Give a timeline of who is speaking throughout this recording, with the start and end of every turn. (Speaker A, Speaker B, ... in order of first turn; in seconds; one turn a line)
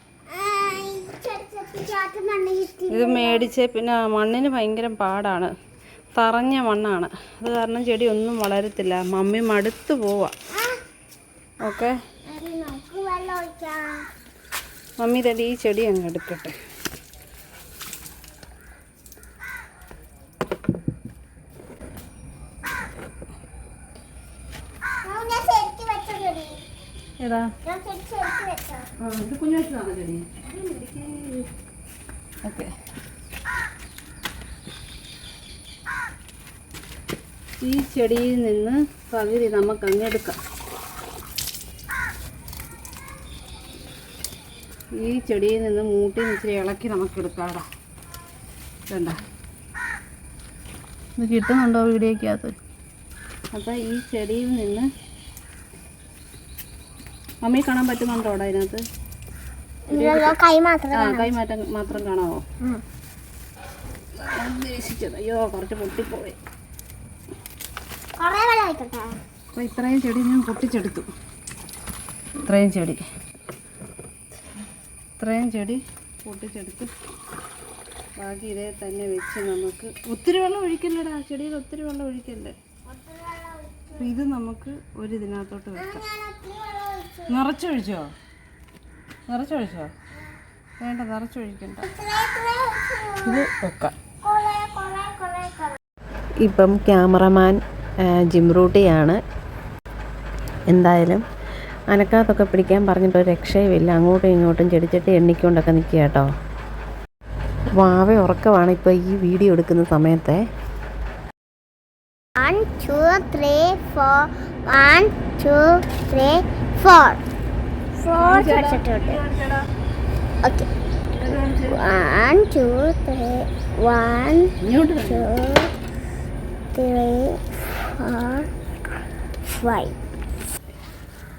Speaker A: 0.3-3.5
Speaker B: 2.9-5.5
Speaker B: 6.2-10.3
Speaker B: 11.6-12.0
Speaker A: 12.2-14.1
Speaker B: 15.0-16.6
Speaker A: 25.0-26.6
Speaker B: 27.2-27.5
Speaker A: 27.6-28.9
Speaker B: 29.0-31.5
Speaker B: 32.4-32.7
Speaker B: 37.6-40.4
Speaker B: 45.0-47.6
Speaker B: 48.9-49.2
Speaker B: 51.2-52.5
Speaker B: 53.5-54.9
Speaker B: 57.4-58.8
Speaker A: 59.9-61.3
Speaker B: 59.9-60.3
Speaker B: 60.9-62.4
Speaker B: 64.2-66.4
Speaker A: 68.2-69.2
Speaker B: 69.5-71.1
Speaker B: 72.5-73.0
Speaker B: 75.2-76.9
Speaker B: 78.2-82.5
Speaker A: 82.9-84.1
Speaker B: 83.9-86.0
Speaker A: 85.8-87.4
Speaker B: 87.3-88.1
Speaker B: 89.3-89.9
Speaker B: 90.8-91.9
Speaker A: 91.8-93.5
Speaker B: 93.2-93.9
Speaker A: 94.2-95.8
Speaker C: 96.4-99.2
Speaker C: 100.7-101.2
Speaker C: 101.9-106.3
Speaker C: 107.8-110.4
Speaker A: 112.4-117.2
Speaker A: 118.0-119.2
Speaker B: 118.1-119.6
Speaker A: 120.4-120.7
Speaker B: 121.1-121.9
Speaker A: 121.7-125.7
Speaker B: 124.6-125.3
Speaker A: 126.7-128.5
Speaker A: 129.5-129.9